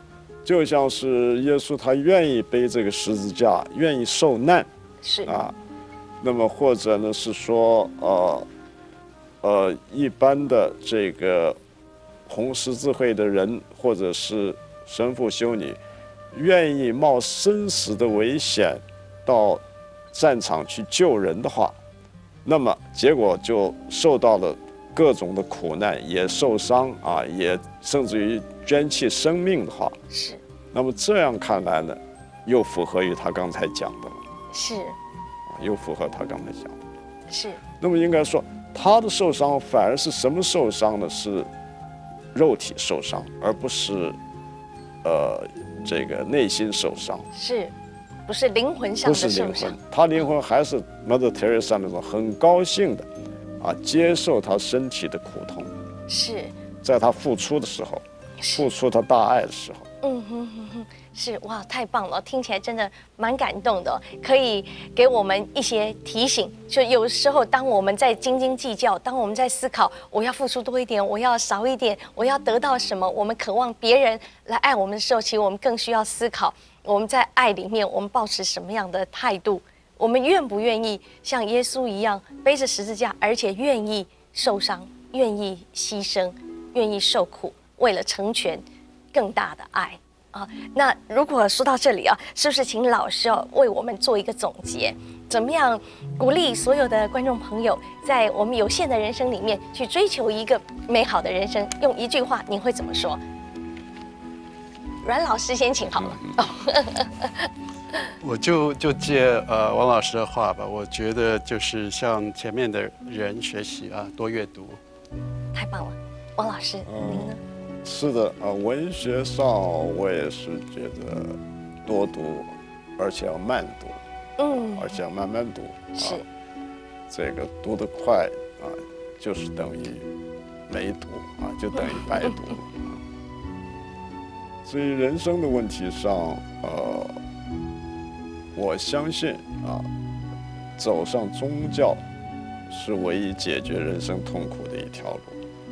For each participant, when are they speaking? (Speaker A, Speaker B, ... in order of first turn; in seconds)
Speaker A: 0.4-4.7, 5.2-5.5, 6.2-8.5, 9.4-11.6, 12.3-15.8, 16.3-21.8, 22.4-30.0, 30.7-34.2, 35.5-36.8, 37.8-41.5, 42.3-44.2, 45.0-47.2, 49.0-53.1, 53.6-55.8, 56.8-59.9, 106.0-106.3, 116.9-124.0, 124.6-126.2, 127.1-130.1, 130.7-132.9, 134.6-137.2, 138.5-139.9, 140.8-142.0, 142.7-145.4
Speaker B: 5.0-5.3, 30.1-30.4, 34.5-35.0, 37.3-37.6, 47.3-47.7, 48.3-49.8, 56.1-56.5, 58.4-58.6, 60.0-103.2, 105.0-107.5, 115.5-117.4, 124.4-124.9, 125.9-126.2
Speaker C: 108.2-114.8